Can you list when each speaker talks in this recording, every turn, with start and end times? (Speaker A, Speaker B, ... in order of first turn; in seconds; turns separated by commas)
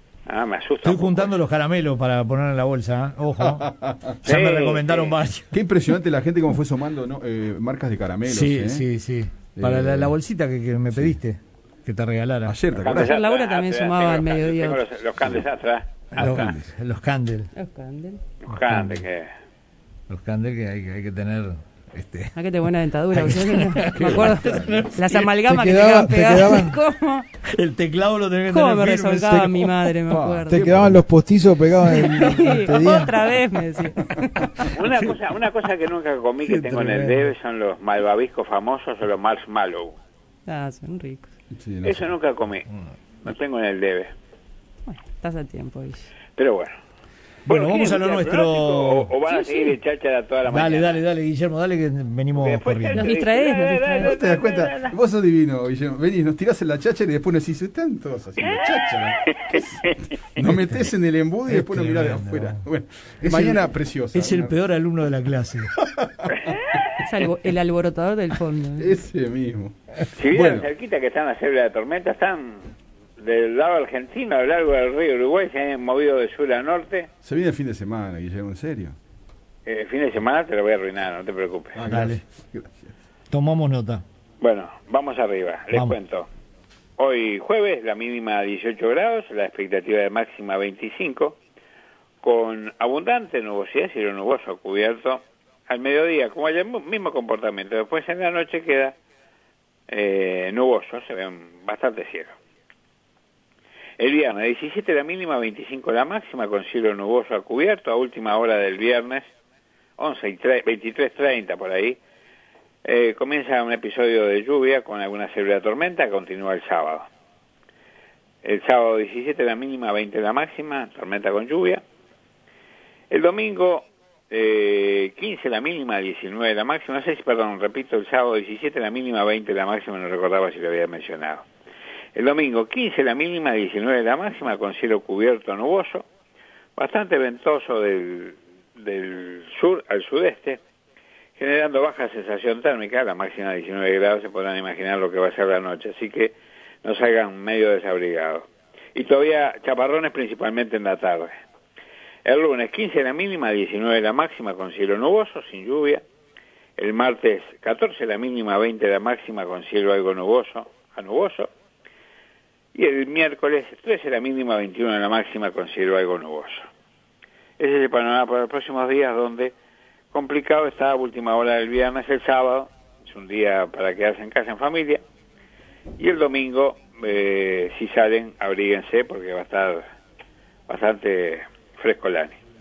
Speaker A: 0.2-1.3, Speaker B: 0.8-3.6, Speaker C: 3.4-4.1, Speaker B: 4.2-5.5, Speaker A: 4.2-5.2, Speaker C: 5.5-8.9, Speaker B: 8.2-12.6, Speaker C: 9.5-10.2, Speaker C: 10.9-11.2, Speaker C: 12.4-13.2, Speaker A: 12.8-16.6, Speaker D: 12.9-14.8, Speaker C: 16.1-16.7, Speaker B: 16.1-17.5, Speaker D: 17.5-18.2, Speaker A: 18.4-19.3, Speaker B: 18.6-19.0, Speaker B: 20.1-22.4, Speaker D: 22.3-27.3, Speaker B: 23.1-25.2, Speaker C: 24.0-24.9, Speaker E: 25.4-26.8, Speaker B: 27.4-29.9, Speaker D: 28.5-30.7, Speaker C: 30.1-31.0, Speaker E: 30.5-33.1, Speaker D: 31.9-34.7, Speaker A: 34.7-40.0, Speaker E: 36.4-37.3, Speaker D: 40.5-41.3, Speaker C: 41.5-42.1, Speaker A: 41.8-42.7, Speaker A: 43.2-44.1, Speaker D: 44.9-46.1, Speaker A: 46.4-46.8, Speaker B: 47.5-49.1, Speaker A: 47.5-51.0, Speaker D: 49.3-49.7, Speaker B: 50.5-53.1, Speaker A: 52.3-55.0, Speaker D: 52.9-54.1, Speaker C: 54.0-64.6, Speaker A: 58.4-60.2, Speaker B: 60.4-60.9, Speaker B: 61.5-62.6, Speaker B: 63.2-65.7, Speaker C: 65.8-66.7, Speaker A: 66.4-67.0, Speaker D: 67.0-69.0, Speaker C: 68.8-70.7, Speaker A: 70.1-77.1, Speaker C: 77.2-79.0, Speaker A: 79.7-81.8, Speaker C: 81.7-82.9, Speaker B: 81.8-82.2, Speaker B: 83.3-84.0, Speaker A: 84.4-86.3, Speaker B: 85.7-86.0, Speaker A: 87.0-91.4, Speaker A: 92.2-99.0, Speaker A: 99.9-102.3, Speaker A: 104.0-109.3, Speaker A: 110.0-112.0, Speaker A: 112.8-117.1, Speaker A: 118.4-121.8, Speaker A: 123.1-131.4, Speaker A: 132.1-136.1, Speaker A: 136.8-140.6, Speaker A: 141.4-151.3, Speaker A: 152.2-156.0, Speaker A: 156.8-161.5, Speaker A: 162.7-166.7, Speaker A: 167.6-169.5, Speaker A: 170.1-175.0, Speaker A: 176.0-179.8, Speaker A: 180.7-182.4